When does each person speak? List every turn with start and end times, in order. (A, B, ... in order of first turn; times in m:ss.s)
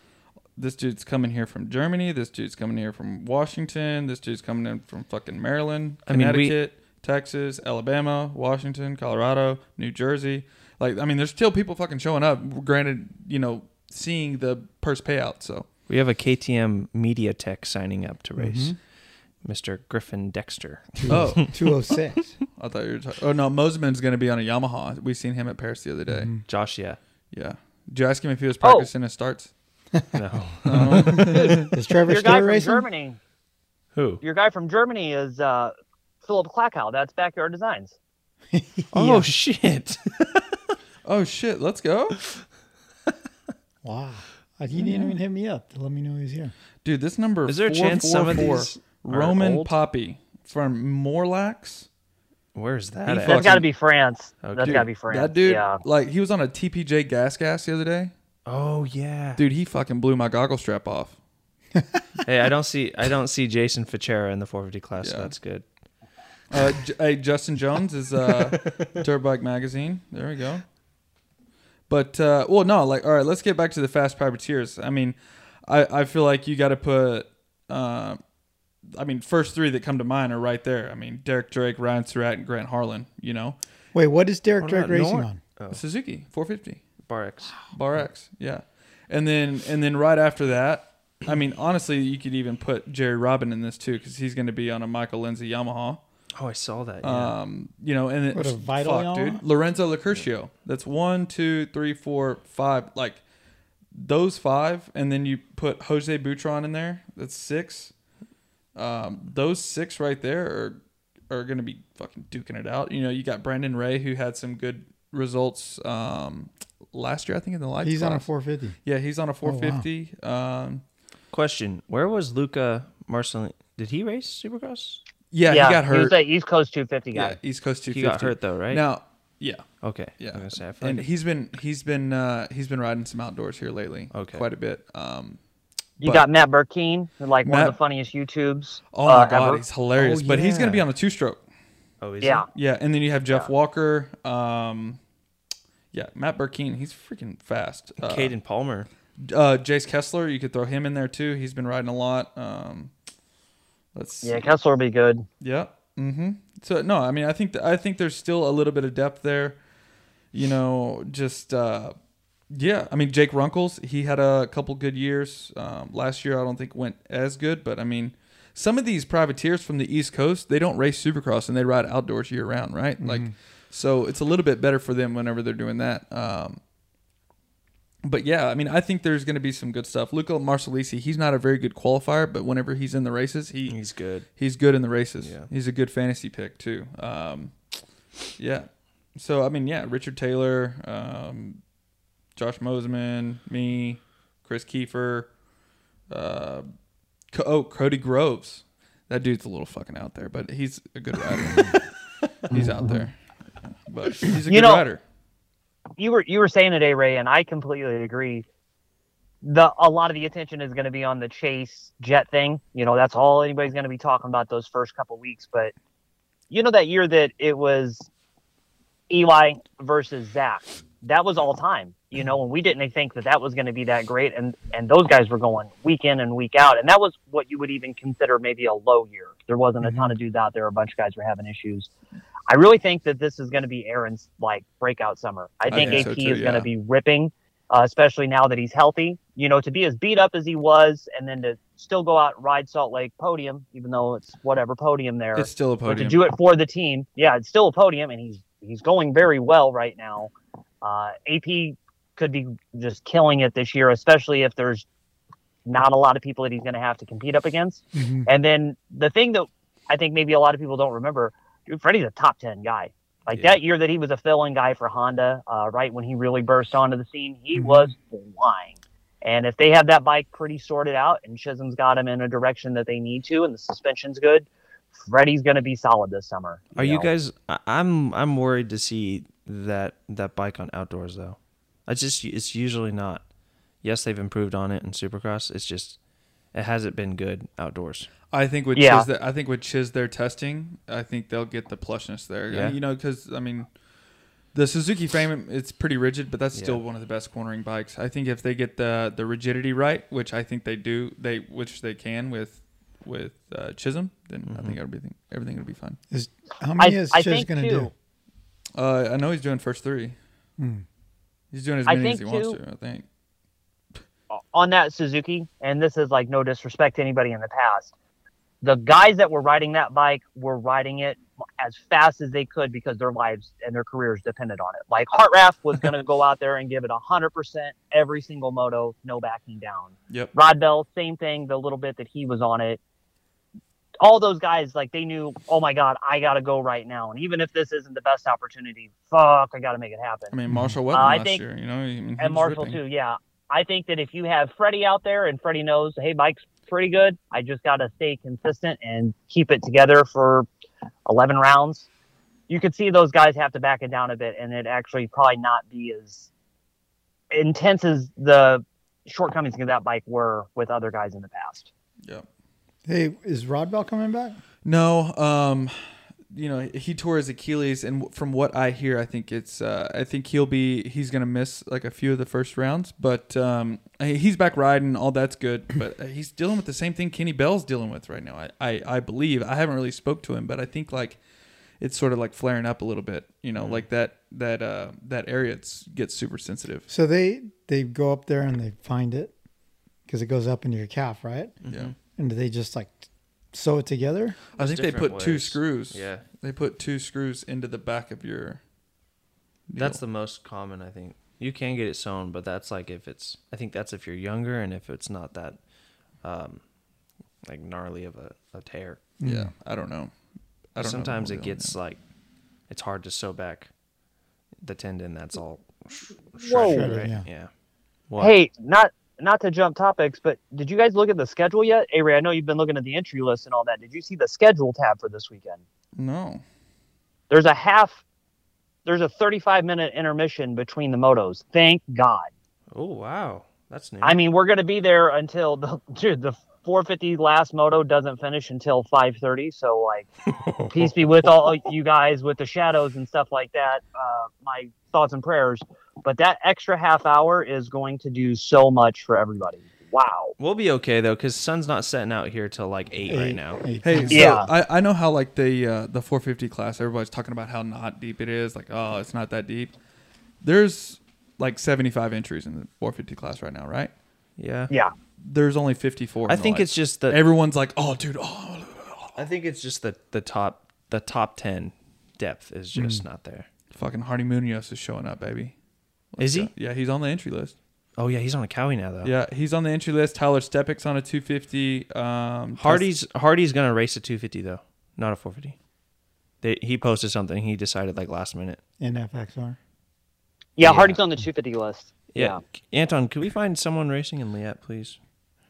0:00.6-0:15.7 A
0:06.1-0:06.6 B
0:15.9-0:18.8 B
0:18.4-0:18.8 C
0:19.4-0:21.4 B
0:21.0-0:22.4 C
0:21.1-0:21.6 A
0:22.6-0:26.4 A
0:26.1-0:26.4 C
0:26.4-0:27.0 B
0:27.3-0:29.5 A
0:28.6-0:28.9 D
0:30.1-0:31.6 B
0:30.6-0:31.6 A
0:30.7-0:32.9 C
0:32.1-0:33.2 D
0:33.9-0:34.2 B
0:34.2-0:38.0 D
0:38.5-0:39.3 C
0:38.9-0:40.6 B
0:41.0-0:42.2 A
0:43.8-0:46.5 C
0:46.8-0:51.9 A
0:47.4-0:49.7 B
0:52.6-0:53.7 B
0:53.1-0:53.6 A
0:53.2-0:55.8 D
0:54.4-0:54.9 B
0:54.6-0:58.1 A
0:58.4-0:59.4 B
0:59.4-1:01.2 A
1:02.2-1:05.6 B
1:05.0-1:05.3 A
1:06.5-1:10.6 A
1:08.2-1:08.8 B
1:11.9-1:18.2 A
1:18.9-1:23.6 A
1:23.9-1:25.4 C
1:24.6-1:25.8 B
1:25.7-1:26.9 A
1:27.1-1:27.6 B
1:27.6-1:36.0 A
1:36.4-1:37.4 B
1:37.0-1:43.2 A
1:38.3-1:39.4 C
1:43.9-1:47.9 A
1:48.8-1:50.8 A
1:51.3-1:58.3 A
1:57.8-1:58.8 C
1:58.8-2:00.8 A
1:59.4-1:59.9 C
2:01.3-2:05.0 B
2:05.3-2:06.2 A
2:05.5-2:07.4 D
2:07.1-2:15.4 A
2:07.9-2:08.8 B
2:09.8-2:11.1 B
2:14.1-2:14.4 B
2:16.0-2:16.3 A
2:16.0-2:19.6 D
2:17.4-2:17.8 A
2:18.9-2:21.4 A
2:19.9-2:20.9 B
2:22.0-2:22.4 B
2:22.2-2:22.5 D
2:22.5-2:25.0 A
2:25.9-2:28.3 A
2:28.0-2:28.9 B
2:29.2-2:32.9 A
2:33.9-2:34.5 A
2:34.2-2:35.3 D
2:35.4-2:39.6 A
2:40.3-2:42.0 A
2:42.5-2:56.6 A
2:53.0-2:53.3 C
2:58.0-3:07.6 A
3:03.7-3:04.3 B
3:05.2-3:05.5 B
3:08.4-3:11.6 A
3:12.4-3:15.3 A
3:16.1-3:16.7 A
3:17.3-3:21.8 A
3:22.5-3:23.2 A
3:23.9-3:25.0 A
3:24.5-3:24.9 D
3:26.0-3:28.4 D
3:29.4-3:35.7 D
3:36.5-3:38.1 D
3:39.1-3:51.9 D
3:49.8-3:50.1 C
3:52.5-4:14.9 D
3:55.7-3:56.7 A
3:55.7-3:56.0 B
4:05.4-4:06.2 A
4:15.6-4:37.1 D
4:17.9-4:18.3 C
4:23.3-4:23.6 B
4:27.5-4:27.9 C
4:36.8-4:43.2 B
4:43.8-4:46.0 B
4:46.5-4:48.1 B
4:48.3-4:53.7 A
4:48.8-4:49.1 D
4:52.5-4:52.8 B
4:54.5-5:06.0 A
4:56.6-4:56.8 B
5:04.5-5:04.8 B
5:06.1-5:07.9 C
5:06.8-5:07.9 D
5:08.8-5:10.2 A
5:10.6-5:10.8 C
5:11.5-5:13.0 A
5:11.9-5:12.6 D
5:14.3-5:17.9 D
5:18.6-5:32.8 D
5:34.0-5:40.3 D
5:40.3-5:42.8 A
5:40.5-5:40.8 C
5:40.9-5:41.4 D
5:42.2-5:50.5 D
5:51.0-5:51.9 D
5:52.5-5:56.3 D
5:57.3-6:01.7 D
6:02.9-6:04.4 C
6:04.6-6:05.8 A
6:06.3-6:21.2 A
6:21.8-6:26.9 A
6:23.6-6:23.8 B
6:26.9-6:29.3 C
6:30.1-6:31.6 C
6:31.6-6:31.9 B
6:32.2-6:34.4 C
6:34.6-6:36.2 B
6:34.6-6:38.6 A
6:39.7-6:40.0 A
6:39.8-6:45.6 B
6:46.2-6:46.6 B
6:47.4-6:49.0 B
6:49.2-6:49.5 C
6:49.2-6:50.1 A
6:50.7-6:51.7 A
6:50.8-6:52.0 B
6:52.7-6:53.7 B
6:54.6-6:57.5 B
6:56.4-6:57.0 D
6:56.6-6:57.3 C
6:58.2-7:05.6 D
7:06.0-7:06.4 A
7:07.3-7:08.0 D
7:08.8-7:12.3 D
7:12.7-7:14.2 B
7:14.0-7:20.1 D
7:20.7-7:30.4 D
7:30.4-7:33.6 B
7:33.1-7:34.4 C
7:33.8-7:39.7 A
7:34.1-7:34.5 D
7:40.4-7:43.9 A
7:44.4-7:44.7 B
7:45.2-7:49.2 A
7:46.3-7:47.2 B
7:49.2-7:53.5 B
7:52.7-7:53.0 C
7:53.7-7:55.6 A
7:56.1-7:57.6 A
7:56.2-7:56.5 B
7:58.0-7:59.1 B
7:59.0-8:02.9 A
8:02.6-8:05.6 B
8:06.4-8:08.6 B
8:08.8-8:09.6 C
8:10.6-8:12.4 D
8:10.6-8:11.0 B
8:12.1-8:15.0 B